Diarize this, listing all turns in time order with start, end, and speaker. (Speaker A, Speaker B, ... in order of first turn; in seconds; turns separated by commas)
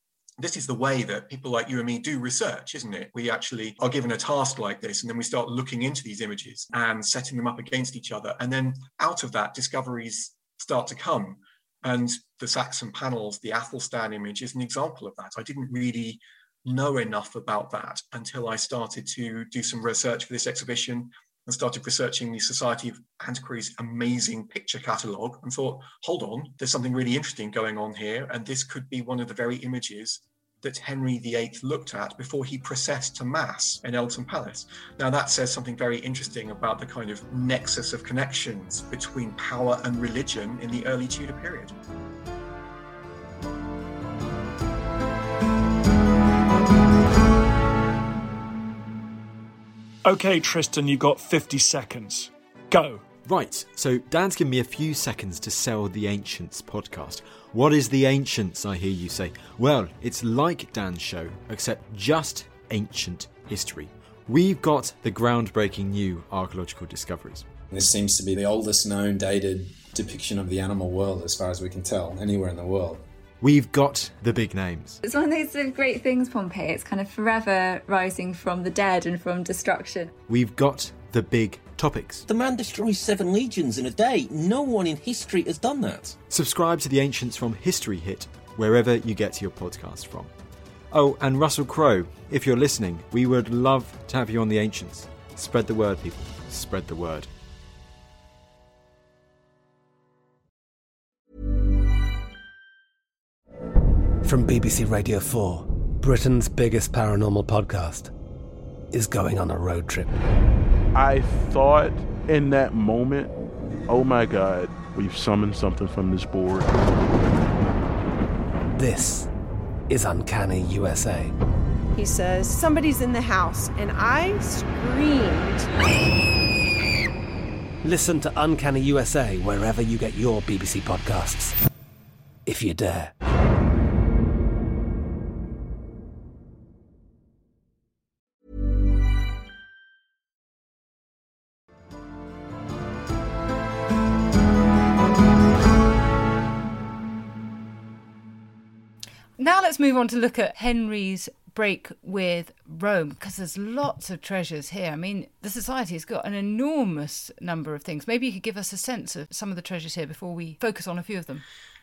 Speaker A: 0.4-41.7, Speaker B: 50.0-53.0, Speaker C: 53.2-67.5, Speaker D: 67.7-73.0, Speaker C: 73.4-75.0, Speaker E: 75.0-80.1, Speaker C: 80.3-82.2, Speaker F: 82.3-86.2, Speaker C: 86.3-90.3, Speaker C: 90.9-97.3, Speaker G: 104.2-108.1, Speaker G: 108.9-110.2, Speaker H: 110.9-113.4, Speaker H: 113.9-116.8, Speaker G: 118.8-119.3, Speaker G: 119.9-121.3, Speaker I: 121.9-125.7, Speaker G: 127.8-131.6, Speaker G: 132.5-133.1, Speaker J: 149.4-161.4